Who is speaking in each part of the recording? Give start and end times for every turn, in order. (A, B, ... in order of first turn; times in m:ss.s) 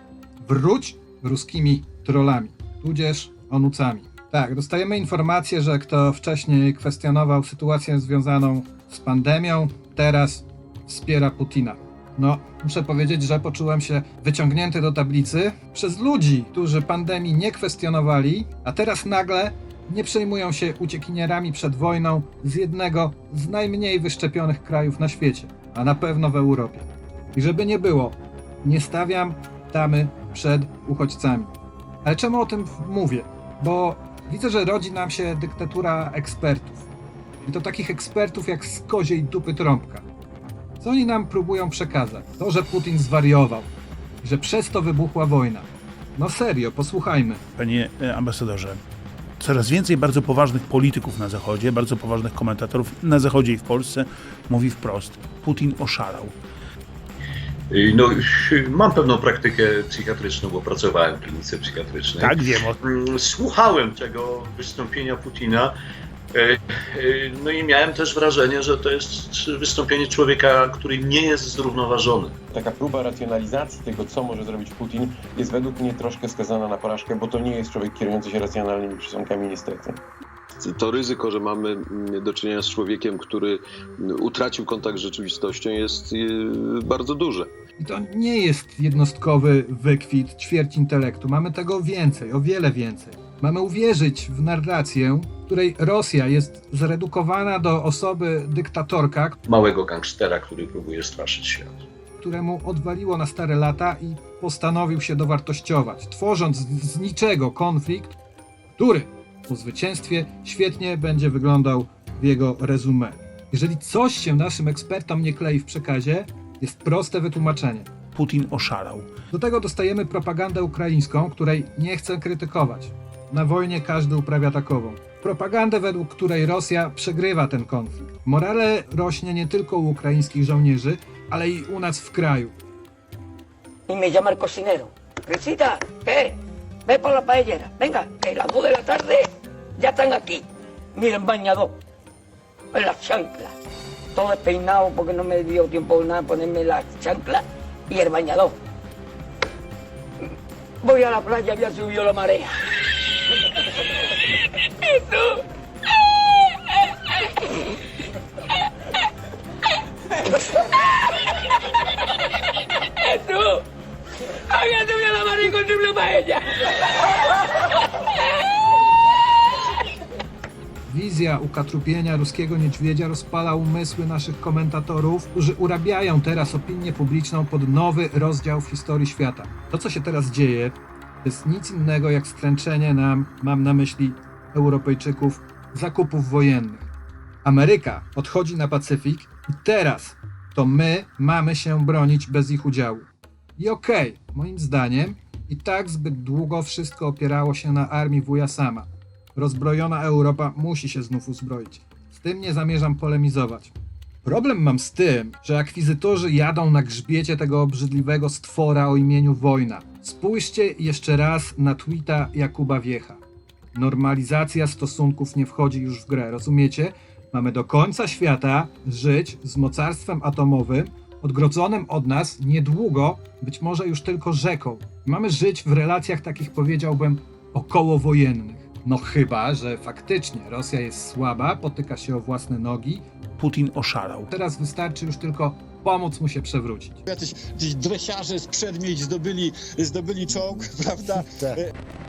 0:00.4-0:36.9 A
0:37.4-0:40.1 A
0:40.8-0:43.7 A
0:44.2-0:47.4 A
0:47.6-0:48.8 B
0:49.4-0:56.4 B
0:57.7-1:05.8 C
1:02.2-1:02.8 B
1:06.3-1:12.4 C
1:12.5-1:20.0 D
1:20.6-1:27.5 E
1:27.8-1:39.4 A
1:39.5-1:41.8 C
1:42.2-1:48.2 A
1:48.8-1:57.9 A
1:58.2-1:59.1 B
1:59.3-2:12.5 A
2:13.9-2:21.8 F
2:22.7-2:23.5 F
2:24.1-2:28.6 F
2:30.8-2:32.6 F
2:34.8-2:35.4 F
2:43.1-2:43.6 F
2:44.5-2:46.5 F
2:50.9-3:06.9 A
3:07.4-3:33.2 A
3:33.7-3:53.0 A
3:53.4-3:54.3 B
3:54.3-3:57.0 A
3:57.1-4:01.7 G